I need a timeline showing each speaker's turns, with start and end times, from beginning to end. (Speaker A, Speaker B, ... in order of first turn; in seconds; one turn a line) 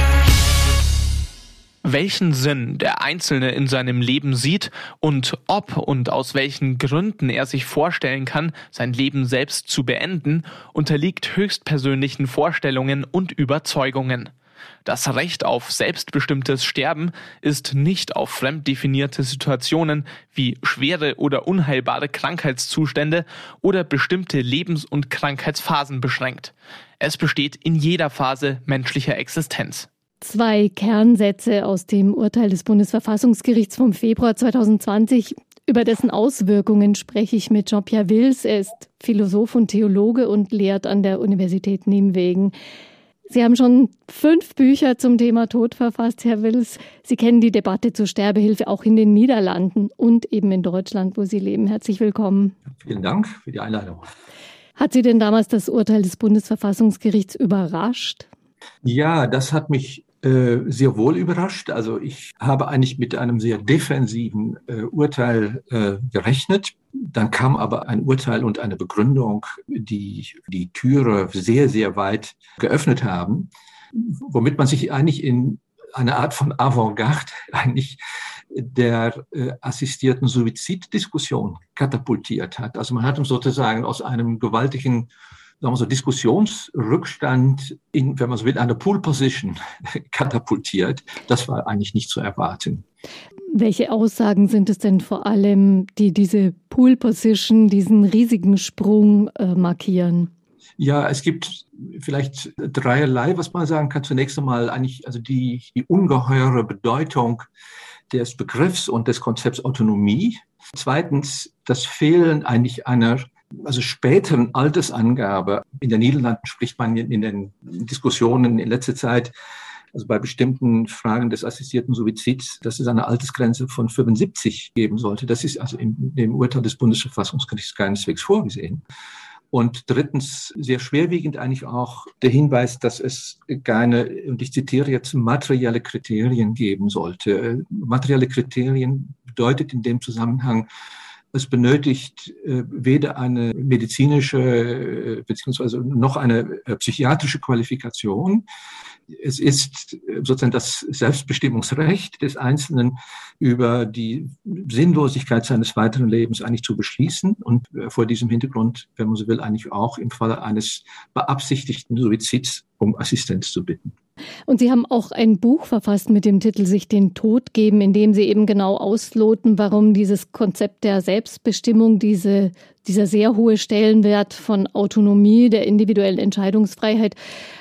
Speaker A: 1.8-14.3
Speaker A: 14.8-29.9
Speaker B: 30.2-42.5
Speaker B: 43.3-52.5
Speaker C: 52.8-54.1
Speaker B: 54.8-58.3
Speaker C: 58.8-78.0
Speaker C: 78.5-85.1
Speaker C: 85.6-92.8
Speaker B: 93.5-100.3
Speaker C: 100.8-107.5
Speaker C: 108.1-119.3
Speaker C: 119.9-128.8
Speaker C: 129.5-140.7
Speaker C: 141.3-148.4
Speaker C: 149.1-163.9
Speaker B: 164.5-177.2